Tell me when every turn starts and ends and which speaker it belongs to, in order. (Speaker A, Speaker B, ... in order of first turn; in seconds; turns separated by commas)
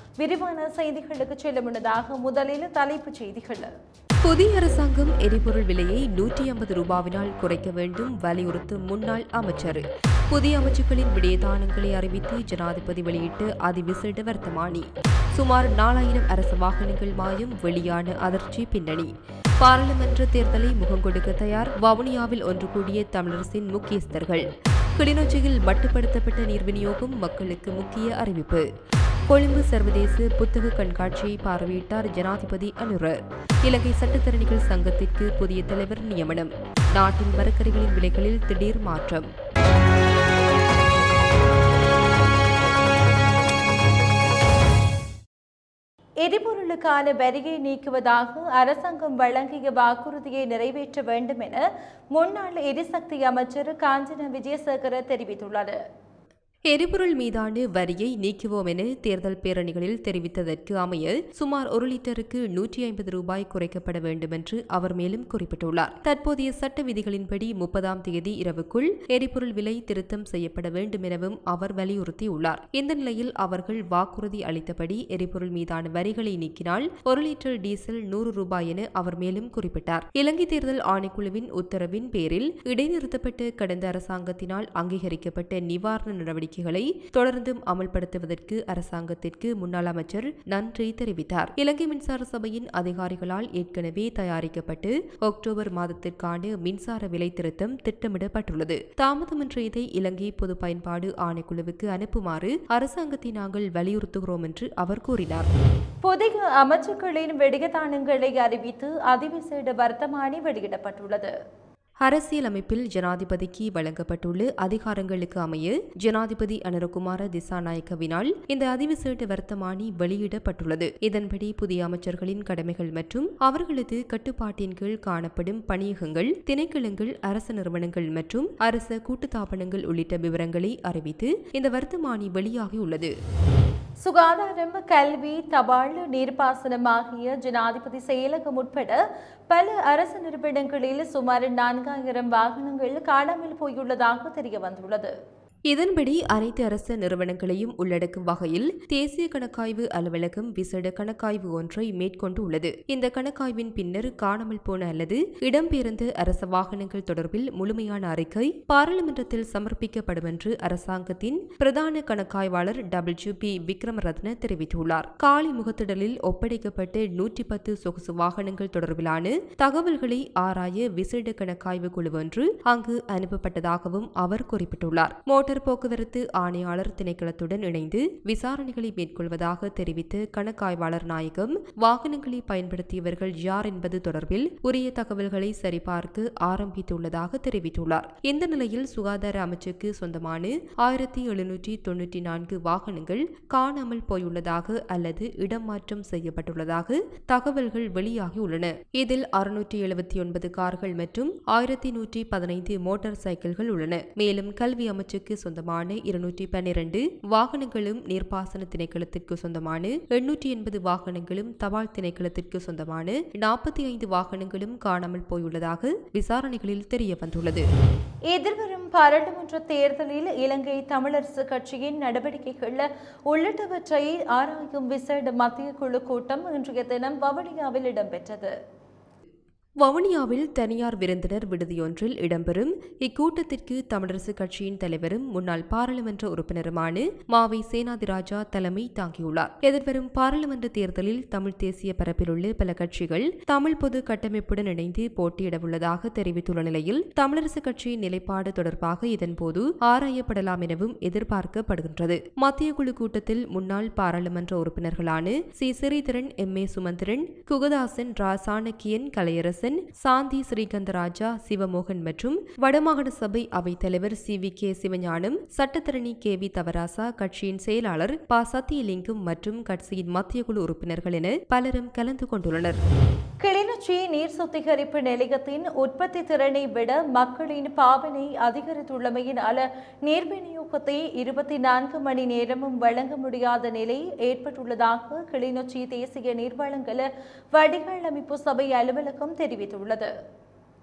Speaker A: 0.2-3.7, Speaker B: 4.2-24.4, Speaker B: 25.0-28.6, Speaker B: 29.3-39.3, Speaker A: 46.2-55.8, Speaker B: 56.7-105.5, Speaker A: 106.0-111.3, Speaker B: 112.0-133.1, Speaker A: 134.0-139.0, Speaker A: 139.5-145.1, Speaker B: 145.7-217.6, Speaker A: 218.3-228.5, Speaker B: 229.8-272.8, Speaker A: 273.4-290.1